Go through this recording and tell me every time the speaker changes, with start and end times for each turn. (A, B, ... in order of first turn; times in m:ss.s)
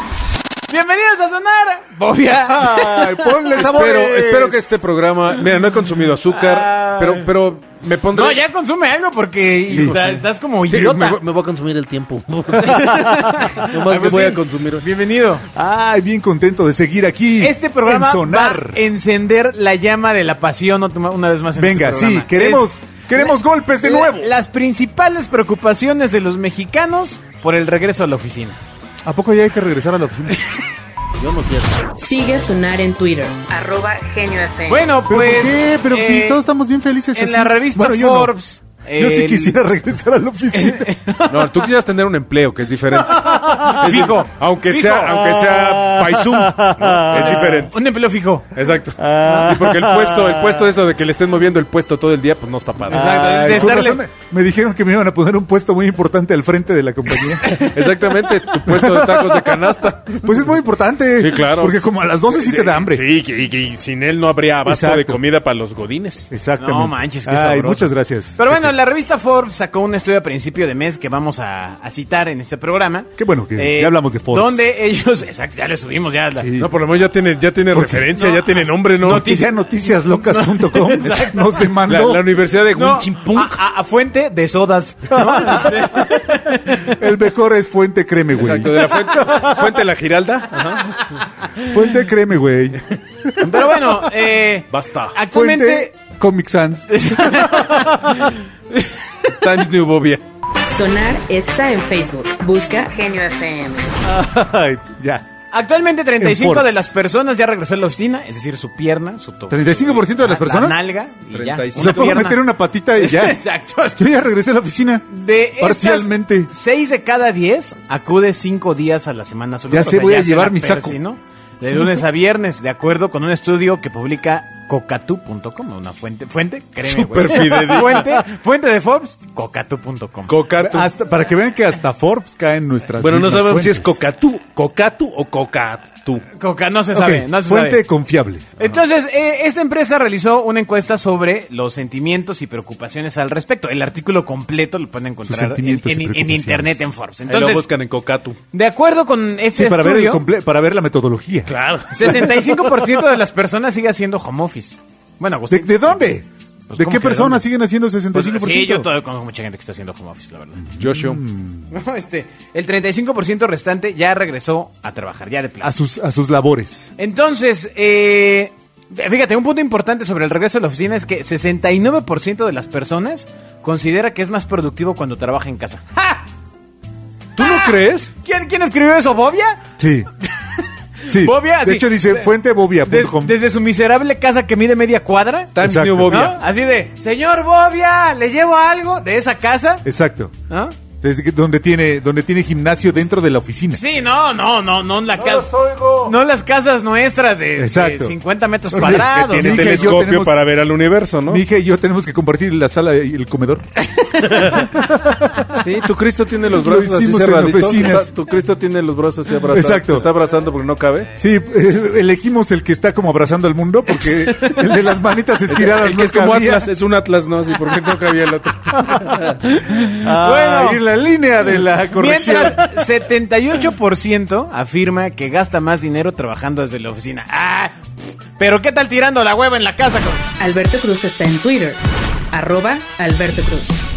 0:00.7-0:03.4 A
0:02.5-0:04.7 B
0:03.6-0:08.4 C
0:06.3-0:07.3 A
0:08.1-0:11.2 A
0:09.7-0:14.9 C
0:09.7-0:10.0 B
0:12.5-0:15.5 A
0:15.5-0:18.8 B
0:17.4-0:22.7 A
0:21.6-0:24.3 B
0:23.2-0:28.6 A
0:29.0-0:30.4 B
0:31.2-0:31.9 C
0:32.0-0:34.9 D
0:34.7-0:36.4 A
0:35.1-0:38.3 B
0:37.1-0:39.6 A
0:39.0-0:40.9 B
0:40.5-0:41.6 A
0:41.3-0:47.8 C
0:43.0-0:44.1 B
0:43.8-0:45.2 A
0:45.2-0:47.7 B
0:47.1-0:48.5 A
0:48.5-0:53.8 C
0:49.0-0:50.7 B
0:52.9-0:54.0 A
0:52.9-0:57.6 B
0:57.4-1:00.6 C
0:58.6-0:59.6 B
1:00.2-1:03.1 B
1:01.2-1:06.3 C
1:04.6-1:05.2 B
1:06.3-1:08.6 B
1:06.6-1:16.5 A
1:13.2-1:14.6 B
1:16.4-1:16.7 B
1:16.6-1:19.3 C
1:17.7-1:18.0 B
1:18.1-1:21.7 A
1:19.0-1:22.2 B
1:21.8-1:23.6 C
1:22.7-1:27.0 A
1:25.1-1:25.7 B
1:26.9-1:29.6 B
1:28.3-1:31.2 C
1:31.6-1:33.5 B
1:33.4-1:35.9 A
1:34.7-1:35.2 C
1:35.3-1:37.2 B
1:36.9-1:39.1 A
1:39.3-1:40.2 C
1:40.6-1:43.9 D
1:44.0-1:45.3 B
1:45.5-1:52.4 A
1:46.2-1:46.7 B
1:49.5-1:50.8 B
1:51.3-1:52.3 C
1:51.7-1:53.4 B
1:53.0-1:54.1 A
1:54.0-1:55.1 B
1:55.1-2:10.3 A
1:55.6-1:56.5 B
1:59.7-2:01.0 B
2:06.8-2:08.2 C
2:10.3-2:10.9 C
2:10.6-2:13.9 B
2:13.0-2:16.3 C
2:16.3-2:17.8 A
2:16.9-2:18.6 B
2:18.6-2:27.7 A
2:25.2-2:26.9 B
2:27.3-2:28.4 C
2:28.5-2:30.2 A
2:29.5-2:31.5 B
2:31.5-2:32.8 C
2:31.9-2:36.1 A
2:35.5-2:38.9 B
2:36.7-2:37.5 A
2:38.1-2:40.7 A
2:40.8-2:41.2 C
2:40.9-2:41.7 B
2:41.7-2:45.7 A
2:45.6-2:46.9 B
2:47.0-2:56.2 A
2:57.4-2:58.1 C
2:57.4-2:59.6 A
2:59.8-3:00.1 B
3:00.4-3:09.8 A
3:01.1-3:03.4 B
3:05.6-3:06.4 C
3:05.6-3:06.3 B
3:09.8-3:10.3 B
3:10.5-3:10.8 A
3:11.0-3:13.8 B
3:13.7-3:20.0 A
3:15.1-3:16.2 C
3:17.6-3:18.2 B
3:18.7-3:20.4 B
3:18.8-3:21.4 C
3:21.3-3:23.6 B
3:24.2-3:24.7 C
3:24.4-3:25.4 B
3:25.6-3:31.1 C
3:26.5-3:28.1 B
3:29.5-3:30.1 B
3:31.2-3:36.7 B
3:34.1-3:34.6 A
3:35.5-3:39.4 C
3:38.8-3:39.2 B
3:39.4-3:40.8 A
3:39.8-3:42.6 B
3:41.9-3:47.8 A
3:48.4-3:50.3 A
3:50.4-3:51.8 D
3:52.3-3:53.8 D